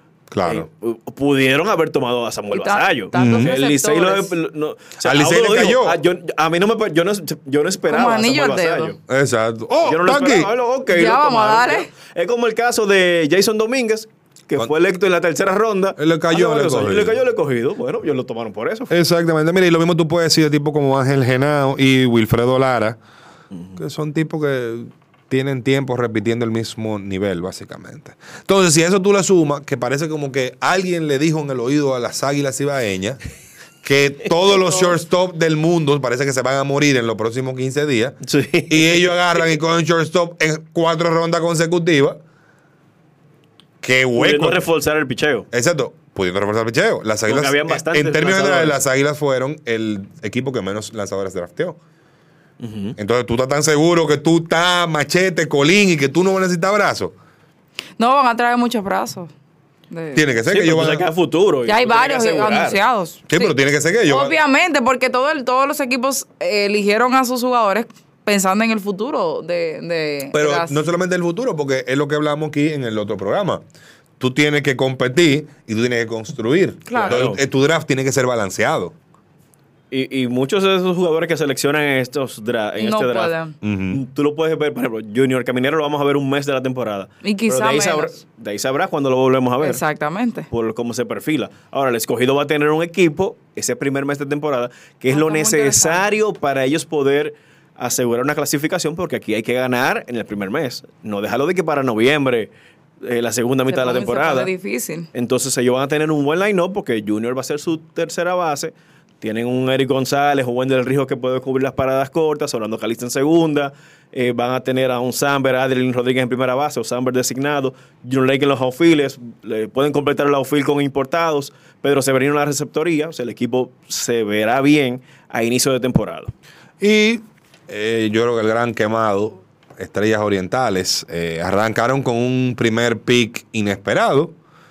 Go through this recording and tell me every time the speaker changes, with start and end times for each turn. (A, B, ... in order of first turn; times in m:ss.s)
0:00.3-0:00.7 A
0:00.4-0:09.0 B
0:02.5-0:04.4 C
0:03.1-0:03.5 A
0:05.0-0:06.0 A
0:07.9-0:08.9 C
0:09.1-0:10.5 A
0:09.8-0:18.9 B
0:10.9-0:11.9 C
0:16.0-0:17.2 A
0:18.9-0:23.0 A
0:23.5-0:23.8 B
0:23.8-0:33.2 A
0:33.8-0:42.2 A
0:38.2-0:39.2 B
0:43.8-0:44.7 A
0:44.2-0:45.5 B
0:45.5-0:51.8 A
0:47.3-0:48.8 B
0:52.6-0:53.0 B
0:53.0-0:57.2 A
0:58.0-0:59.3 C
0:59.9-1:00.2 C
1:00.2-1:01.1 A
1:00.5-1:02.8 B
1:01.7-1:03.5 C
1:03.3-1:04.4 A
1:04.1-1:10.8 C
1:10.3-1:13.6 A
1:14.2-1:19.0 A
1:16.9-1:17.2 C
1:16.9-1:17.4 B
1:19.9-1:23.4 B
1:22.8-1:23.6 C
1:23.6-1:24.0 A
1:23.9-1:29.8 B
1:27.2-1:28.2 C
1:29.6-1:30.5 C
1:30.5-1:42.5 B
1:35.1-1:36.1 C
1:43.0-1:44.5 B
1:43.7-1:45.1 C
1:45.1-2:06.3 B
2:06.8-2:14.4 A